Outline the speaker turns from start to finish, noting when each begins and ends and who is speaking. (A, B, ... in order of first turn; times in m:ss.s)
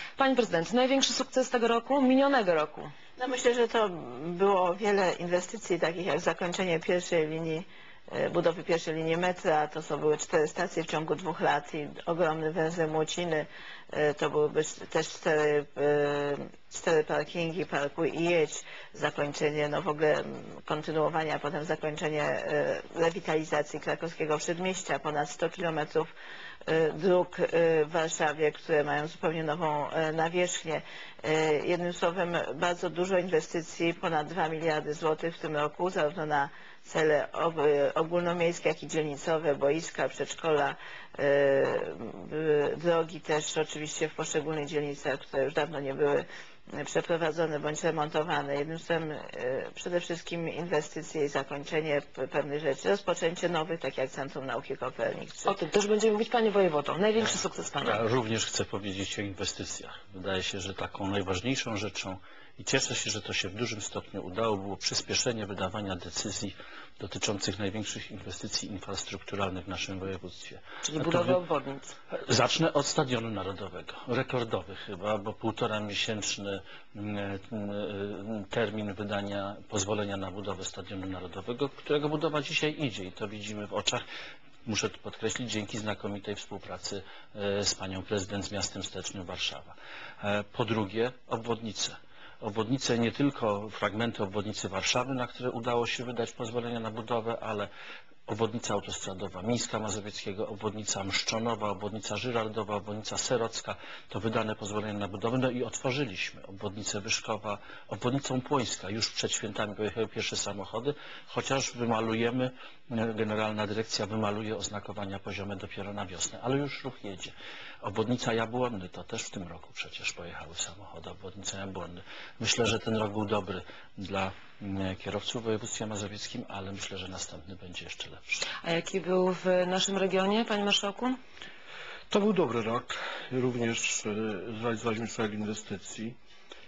0:00.2-0:02.9 A
0:03.2-0:26.1 B
0:26.7-0:55.5 B
0:55.5-0:58.0 A
0:57.8-1:11.4 C
1:10.8-1:12.0 A
1:12.1-1:24.0 C
1:24.6-1:37.7 C
1:38.3-2:08.4 C
2:08.6-2:11.2 A
2:12.1-2:16.2 D